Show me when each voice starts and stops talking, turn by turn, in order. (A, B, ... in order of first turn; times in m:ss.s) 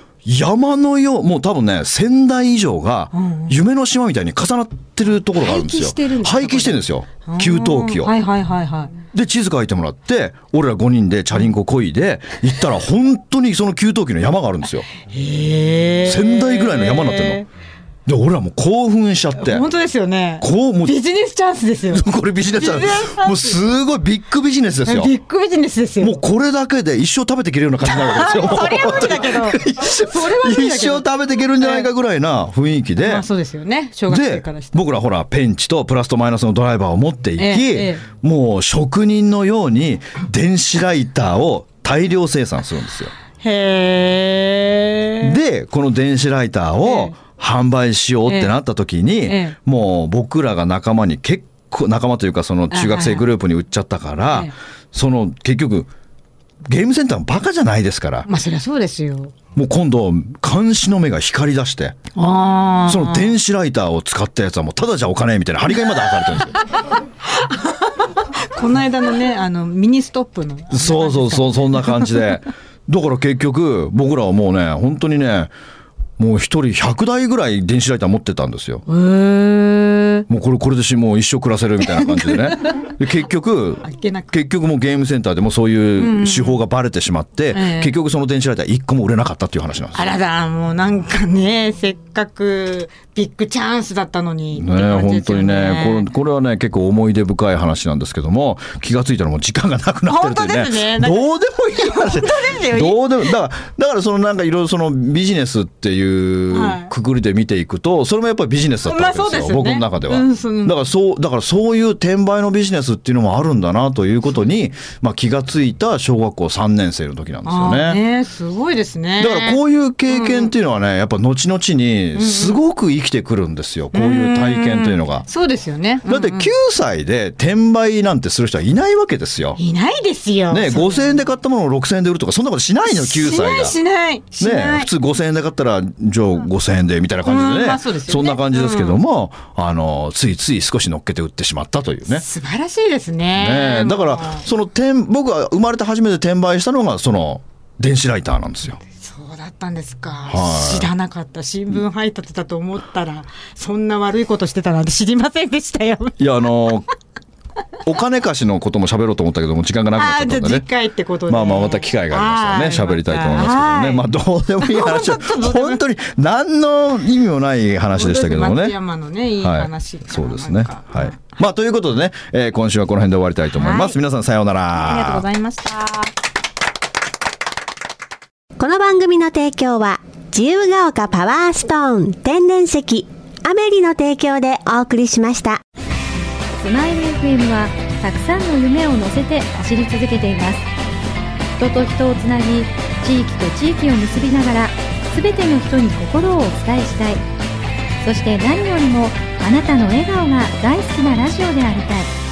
0:00.2-0:08.2 A
0:03.1-0:03.6 B
0:05.4-0:09.0 B
0:09.1-0:14.9 A
0:15.1-0:17.5 B
0:16.0-0:17.4 A
0:18.1-0:19.7 A
0:19.4-0:23.7 B
0:20.4-0:21.0 A
0:21.9-0:25.1 A
0:24.8-0:26.2 B
0:26.0-0:33.3 A
0:27.8-0:31.9 B
0:33.0-0:34.9 B
0:34.1-0:43.1 A
0:37.4-0:38.0 B
0:43.4-0:45.4 B
0:45.2-0:55.9 A
0:46.8-0:47.2 B
0:48.3-0:48.5 B
0:49.2-0:49.6 B
0:52.7-0:53.3 B
0:56.6-0:58.3 A
0:58.3-0:59.3 B
0:59.6-1:02.0 A
1:02.2-1:03.4 B
1:02.9-1:06.7 A
1:07.3-1:12.1 B
1:10.7-1:15.5 A
1:16.2-1:18.8 A
1:18.9-1:20.3 B
1:20.3-1:30.1 A
1:23.8-1:24.3 B
1:26.0-1:26.6 B
1:27.5-1:27.9 B
1:30.0-1:36.1 B
1:34.6-1:58.0 A
1:40.1-1:43.3 B
1:46.5-1:46.9 B
1:48.8-1:50.8 B
1:57.4-2:00.5 B
1:59.2-2:05.3 A
2:02.2-2:02.6 B
2:03.9-2:06.5 B
2:06.1-2:09.6 A
2:09.6-2:11.2 B
2:10.5-2:13.8 A
2:12.8-2:14.9 B
2:14.4-2:22.2 A
2:17.2-2:19.0 B
2:22.1-2:24.4 B
2:23.4-2:28.8 A
2:28.9-2:36.2 B
2:30.3-2:30.9 A
2:36.2-2:36.9 A
2:37.8-2:40.6 A
2:40.0-2:45.8 B
2:41.3-2:48.8 A
2:48.0-2:51.3 B
2:49.4-2:55.3 A
2:53.6-2:54.0 B
2:54.9-2:56.1 B
2:58.6-3:05.6 C
3:06.6-3:10.7 D
3:11.6-3:17.2 D
3:18.0-3:22.1 D